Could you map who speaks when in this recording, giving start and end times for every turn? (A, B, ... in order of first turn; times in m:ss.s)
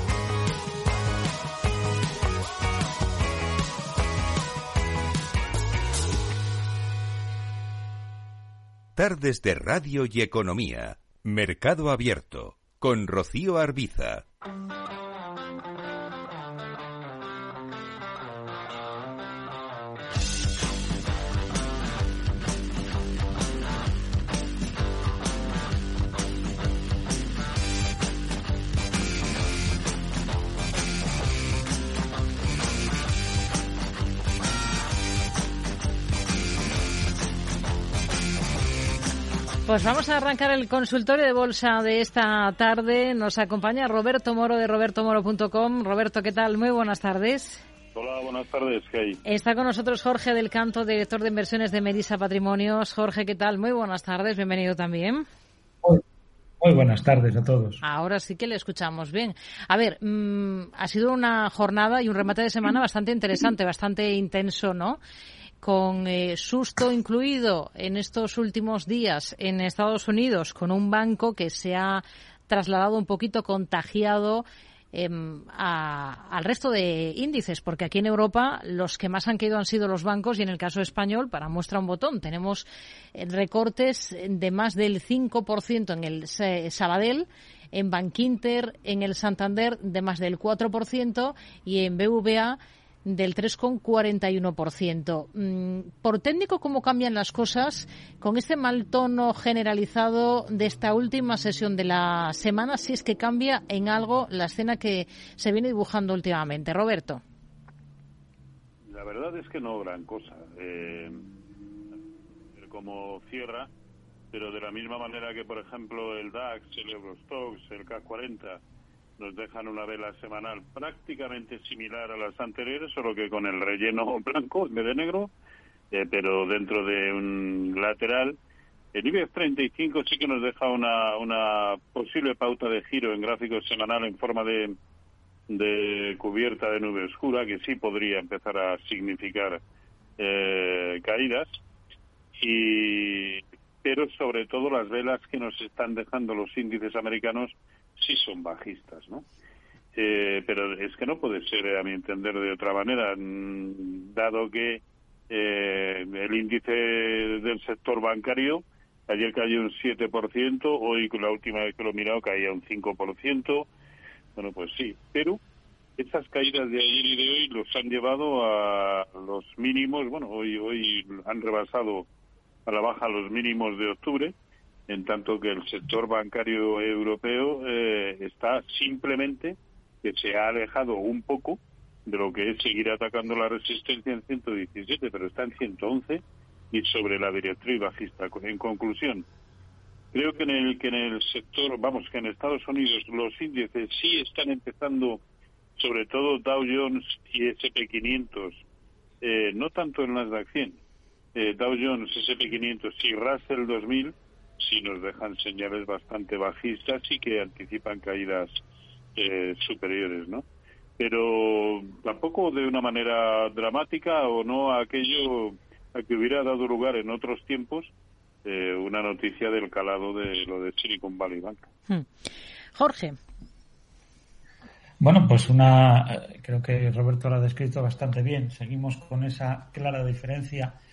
0:09.0-0:14.2 A
0:39.6-0:47.6 B
0:47.9-0:49.2 C
0:49.2-0:55.2 B
0:56.6-0:57.8 D
0:57.8-1:05.0 B
1:05.6-1:47.2 B
1:48.9-1:51.2 C
1:52.6-1:53.7 C
1:54.3-1:58.6 C
1:59.2-2:05.3 C
2:05.9-2:08.4 C
2:08.9-2:14.7 C
2:15.5-2:19.6 C
2:20.2-2:21.5 C
2:22.4-2:29.2 C
2:29.9-2:43.7 C
2:44.4-2:45.4 C
2:46.0-2:52.0 C
2:52.6-2:54.3 C
2:54.9-3:09.2 C
3:10.1-3:15.2 C
3:15.8-3:18.6 C
3:19.2-3:20.8 C
3:21.3-3:28.5 C
3:29.2-3:30.4 C
3:31.0-3:37.9 C
3:38.4-3:41.7 C
3:41.9-3:43.2 B
3:45.0-3:50.8 D